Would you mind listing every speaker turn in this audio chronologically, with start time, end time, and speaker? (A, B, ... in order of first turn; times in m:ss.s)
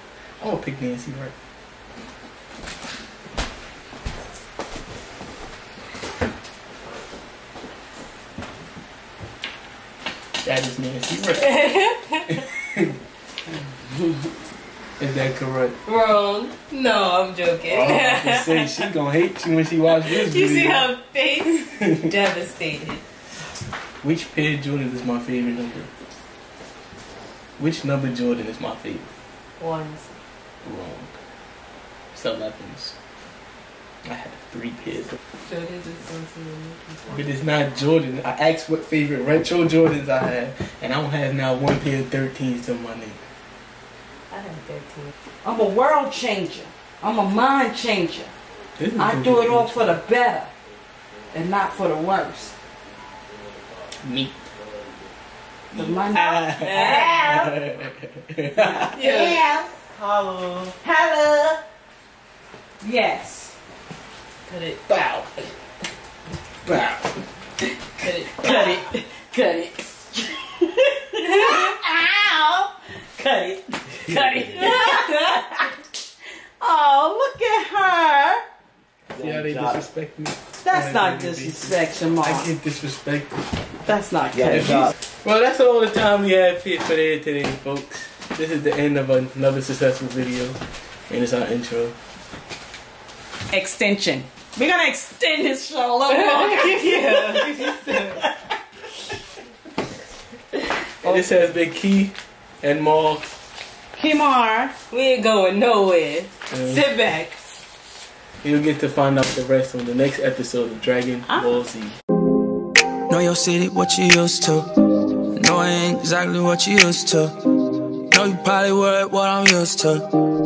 0:00.4-0:01.3 A
0:10.4-0:11.8 A
0:11.4-0:12.4 B
0:15.0-0:15.8 A
0:15.8-0:18.8 B
0:17.6-0:20.9 A
0:20.0-0:23.0 B
0:24.0-0:25.9 A
0:27.6-0:29.1 A
0:29.6-0:30.2 B
0:30.6-0:31.1 A
0:32.1-0:33.0 A
0:34.0-0:35.2 A
0:35.4-0:37.2 B
0:37.1-0:43.2 A
0:44.3-0:45.1 B
0:45.4-0:48.3 C
0:48.8-0:50.0 A
0:49.0-0:50.5 C
0:51.3-0:52.5 C
0:54.0-0:54.5 A
0:55.7-0:57.6 C
0:55.7-0:58.8 A
0:58.6-0:59.9 C
0:58.9-0:59.4 B
1:00.0-1:00.5 A
1:00.8-1:01.6 C
1:02.8-1:03.5 C
1:04.4-1:04.8 B
1:04.9-1:05.3 A
1:06.6-1:07.0 A
1:08.0-1:08.7 B
1:08.0-1:15.7 C
1:16.6-1:18.4 C
1:19.1-1:23.4 A
1:20.6-1:22.5 C
1:23.9-1:24.9 C
1:24.4-1:31.9 A
1:33.5-1:38.3 C
1:36.3-1:38.2 B
1:41.0-1:43.3 A
1:43.9-1:44.7 C
1:44.9-1:47.4 B
1:48.4-1:52.0 A
1:53.1-1:54.7 D
1:55.3-1:57.3 D
1:58.1-2:00.0 D